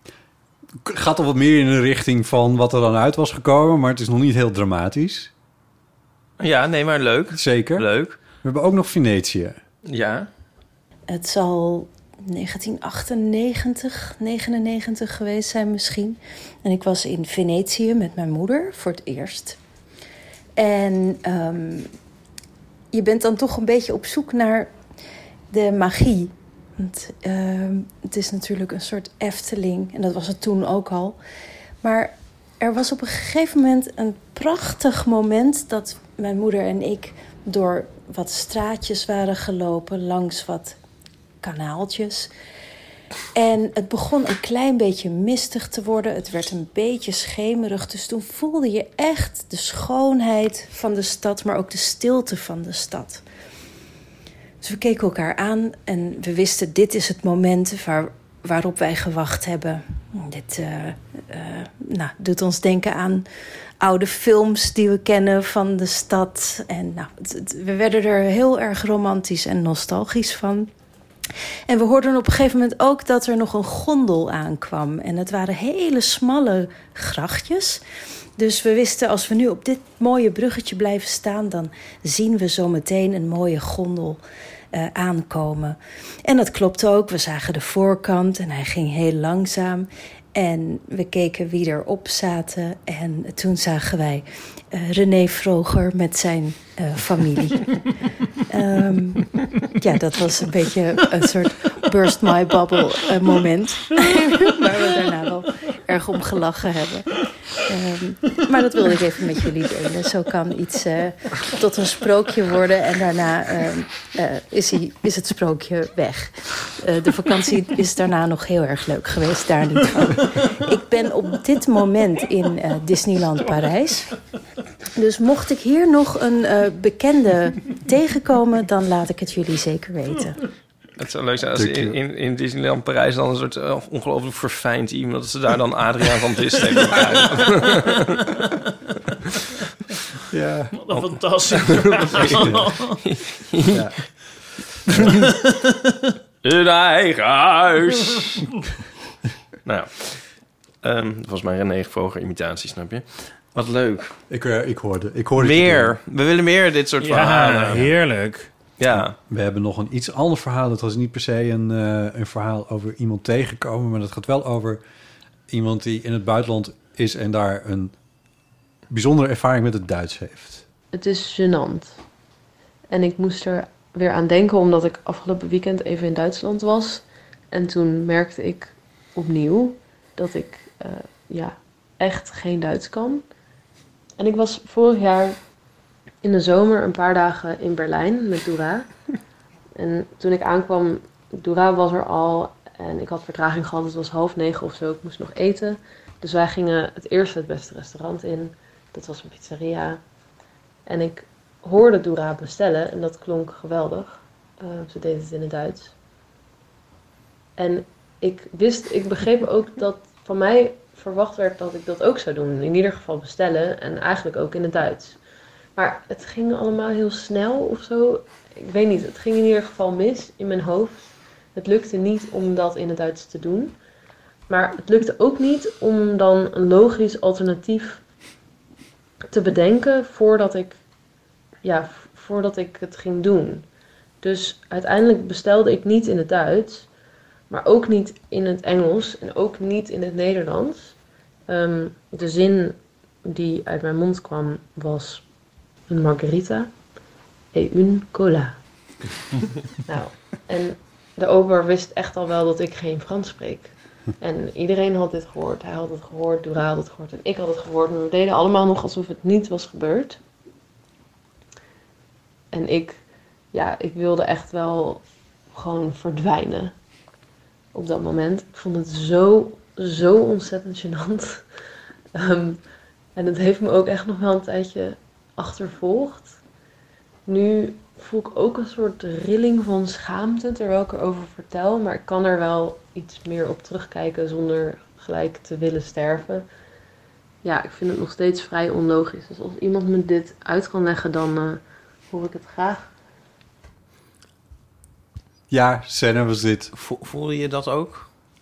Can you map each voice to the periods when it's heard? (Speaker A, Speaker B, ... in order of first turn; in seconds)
Speaker A: 0.8-5.3, 7.3-9.6, 131.6-132.0, 140.3-140.8, 142.2-142.7, 143.7-144.0, 154.3-156.0, 158.9-164.8, 165.5-167.9, 168.9-170.7, 295.5-296.7
Speaker B: 6.4-8.2, 9.9-10.3, 131.0-138.2, 141.5-143.9, 146.4-148.4, 149.7-150.2, 150.8-154.1, 155.4-157.9, 158.8-159.2, 296.8-298.1
Speaker C: 11.1-19.6, 20.6-21.9, 22.9-24.7, 25.5-31.2, 31.8-40.8, 41.4-42.3, 43.4-53.2, 54.6-63.3, 63.8-70.7, 71.7-77.8, 78.4-84.2, 84.7-97.8, 98.5-124.1, 125.0-130.4
Speaker D: 140.7-143.0, 145.1-146.1, 157.0-158.5
Speaker E: 170.9-172.0, 172.9-183.2, 184.2-185.4, 186.2-188.9, 189.8-200.0, 200.9-205.9, 207.6-215.2, 215.8-223.8, 224.5-228.0, 229.3-230.8, 231.6-233.7, 234.2-236.9, 237.5-241.0, 241.5-245.2, 245.9-246.7, 247.5-248.6, 249.9-260.2, 262.5-263.0, 263.5-266.8, 267.7-271.4, 272.1-272.6, 273.1-276.4, 277.3-286.5, 287.4-292.9